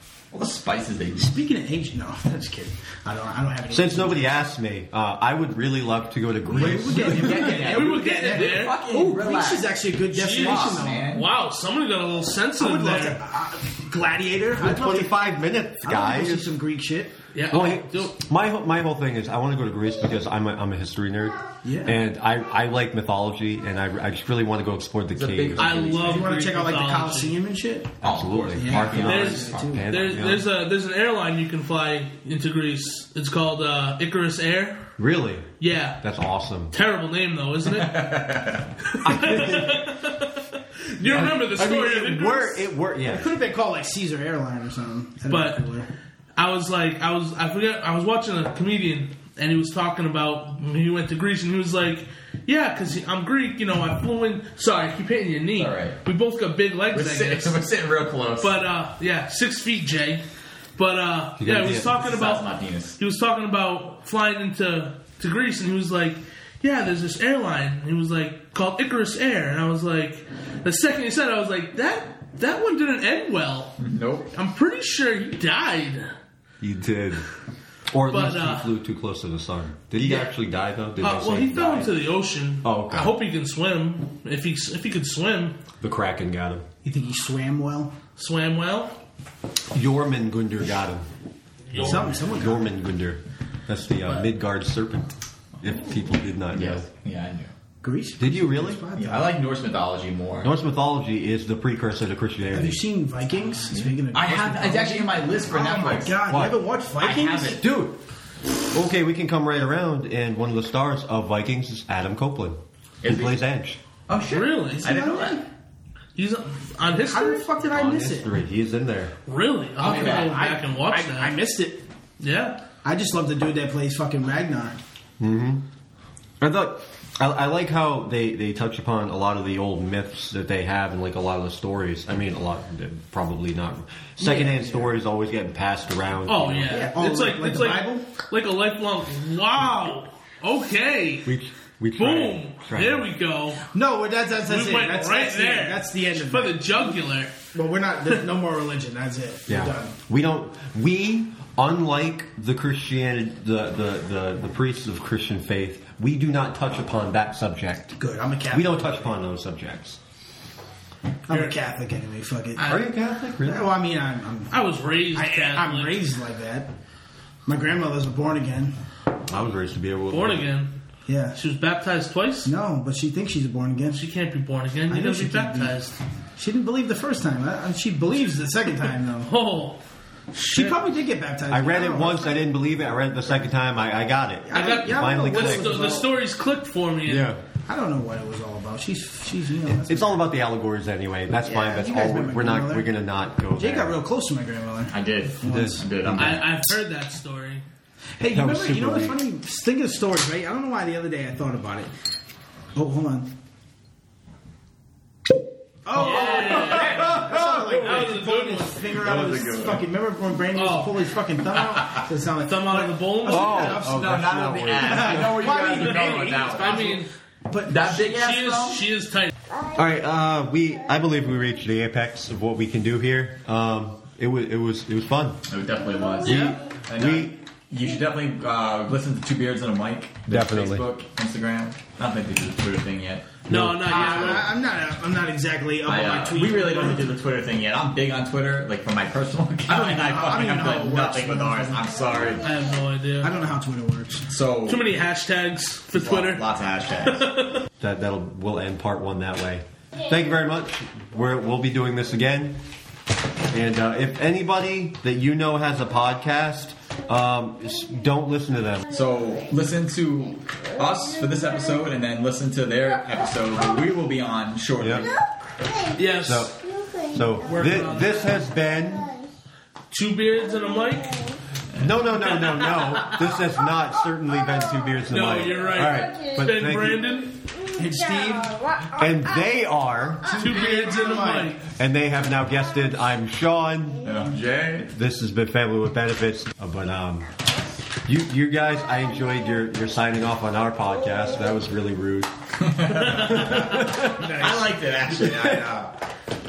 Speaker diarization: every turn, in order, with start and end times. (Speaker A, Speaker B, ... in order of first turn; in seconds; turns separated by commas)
Speaker A: 0.3-1.4, Speaker B: 1.2-4.4, Speaker C: 3.7-7.6, Speaker B: 6.5-11.1, Speaker A: 6.5-9.8, Speaker D: 7.2-8.8, Speaker D: 10.1-13.2, Speaker A: 10.3-11.3, Speaker B: 12.6-15.3, Speaker C: 14.6-16.5, Speaker B: 15.8-17.2, Speaker D: 17.3-18.1, Speaker C: 17.5-25.9, Speaker B: 21.6-22.0, Speaker A: 25.1-26.3, Speaker D: 25.6-27.4, Speaker B: 25.9-28.0, Speaker C: 28.0-30.5, Speaker A: 28.0-29.4, Speaker B: 28.6-29.9, Speaker D: 28.9-34.8, Speaker C: 35.0-36.7, Speaker D: 35.6-36.0, Speaker D: 36.7-38.2, Speaker A: 37.6-39.4, Speaker D: 38.9-42.7, Speaker C: 39.0-39.8, Speaker C: 41.0-43.3, Speaker B: 43.0-45.9, Speaker D: 45.3-45.7, Speaker D: 46.4-57.6, Speaker A: 55.6-56.0, Speaker A: 56.9-58.6, Speaker D: 58.4-60.2, Speaker D: 60.8-62.5, Speaker C: 61.4-61.9, Speaker A: 62.0-63.0, Speaker D: 63.0-73.8, Speaker A: 73.8-74.3, Speaker D: 74.3-76.1, Speaker C: 76.6-77.3, Speaker C: 77.9-82.0, Speaker D: 78.1-78.7, Speaker D: 81.0-85.6, Speaker C: 82.6-83.2, Speaker C: 85.8-86.7, Speaker B: 86.8-88.0, Speaker D: 88.2-89.0, Speaker C: 89.7-91.1, Speaker D: 91.7-92.0, Speaker C: 91.7-96.9, Speaker B: 91.8-92.8, Speaker A: 96.5-97.5, Speaker B: 97.8-99.4, Speaker C: 98.2-98.8, Speaker A: 98.9-100.5, Speaker C: 100.4-102.8, Speaker B: 102.5-107.7, Speaker A: 104.1-106.2, Speaker C: 106.3-106.6, Speaker A: 107.0-107.6, Speaker C: 107.6-108.0, Speaker C: 108.7-113.8, Speaker A: 113.0-113.3, Speaker A: 114.1-115.4, Speaker D: 114.3-114.9, Speaker B: 114.8-115.4, Speaker D: 116.2-117.5, Speaker B: 116.9-118.3, Speaker C: 117.7-119.1, Speaker D: 119.3-121.4, Speaker A: 119.8-120.4, Speaker B: 119.8-121.9, Speaker D: 122.2-122.6, Speaker B: 122.8-124.8, Speaker C: 125.2-125.6, Speaker C: 126.4-136.9, Speaker B: 134.2-134.9, Speaker D: 136.3-141.3, Speaker B: 136.7-138.1, Speaker C: 141.3-143.1, Speaker D: 142.0-143.7, Speaker B: 143.7-147.0, Speaker D: 144.4-147.3, Speaker B: 147.5-149.9, Speaker C: 149.5-158.0, Speaker B: 158.0-159.2, Speaker C: 158.5-160.0, Speaker B: 161.3-162.7, Speaker D: 161.3-161.6, Speaker D: 162.6-162.8, Speaker C: 162.7-163.7, Speaker B: 163.4-164.6, Speaker D: 164.5-166.0, Speaker B: 165.1-166.7, Speaker B: 167.4-168.8, Speaker C: 169.3-170.5, Speaker D: 170.1-170.8, Speaker B: 171.1-171.4, Speaker D: 171.4-172.5, Speaker B: 172.4-174.0, Speaker D: 173.9-176.0, Speaker B: 174.9-175.8, Speaker B: 176.4-179.3, Speaker D: 179.2-179.8, Speaker D: 180.3-180.8, Speaker B: 180.4-182.4, Speaker C: 181.5-185.8, Speaker B: 184.4-186.1, Speaker D: 184.5-187.3, Speaker C: 187.1-187.4, Speaker B: 187.7-190.2, Speaker C: 189.7-194.0, Speaker B: 191.4-192.9, Speaker B: 193.6-195.9, Speaker A: 194.9-196.4, Speaker C: 195.4-196.4, Speaker D: 196.2-197.6, Speaker B: 198.2-201.9, Speaker C: 198.3-199.2, Speaker B: 202.8-203.3, Speaker B: 205.8-218.2, Speaker D: 205.9-208.9, Speaker A: 206.0-207.8, Speaker C: 207.4-207.7, Speaker A: 209.0-209.8, Speaker D: 210.5-211.0, Speaker D: 212.4-213.8, Speaker C: 213.3-215.4, Speaker A: 213.7-216.9, Speaker D: 215.8-217.1, Speaker A: 217.7-218.8, Speaker D: 217.9-219.3, Speaker C: 219.7-225.4, Speaker A: 225.5-233.3, Speaker C: 226.2-227.3, Speaker D: 226.3-226.5, Speaker C: 230.3-230.9, Speaker D: 233.5-234.5, Speaker C: 233.5-234.0, Speaker B: 233.8-237.1, Speaker A: 233.9-234.4, Speaker A: 235.8-242.5, Speaker B: 239.7-241.8, Speaker D: 242.4-243.3, Speaker B: 243.2-244.3, Speaker A: 244.3-244.9, Speaker D: 244.7-246.4, Speaker A: 245.9-247.3, Speaker D: 247.0-247.7, Speaker C: 247.8-252.6, Speaker C: 253.5-258.9, Speaker A: 258.9-265.1, Speaker C: 264.8-265.1, Speaker D: 265.9-266.5, Speaker C: 266.2-269.2, Speaker D: 267.5-268.4, Speaker D: 269.9-271.2, Speaker A: 271.7-272.0, Speaker C: 271.8-277.1, Speaker D: 272.2-273.2, Speaker D: 275.1-277.4, Speaker B: 277.8-278.8, Speaker C: 278.9-280.5, Speaker B: 280.3-281.6, Speaker D: 280.4-281.6, Speaker C: 281.8-284.1, Speaker A: 284.0-284.9, Speaker C: 284.9-287.3, Speaker C: 288.1-292.3, Speaker A: 292.6-296.0, Speaker D: 293.0-293.7, Speaker C: 293.3-294.3, Speaker B: 294.1-294.8, Speaker C: 295.2-295.6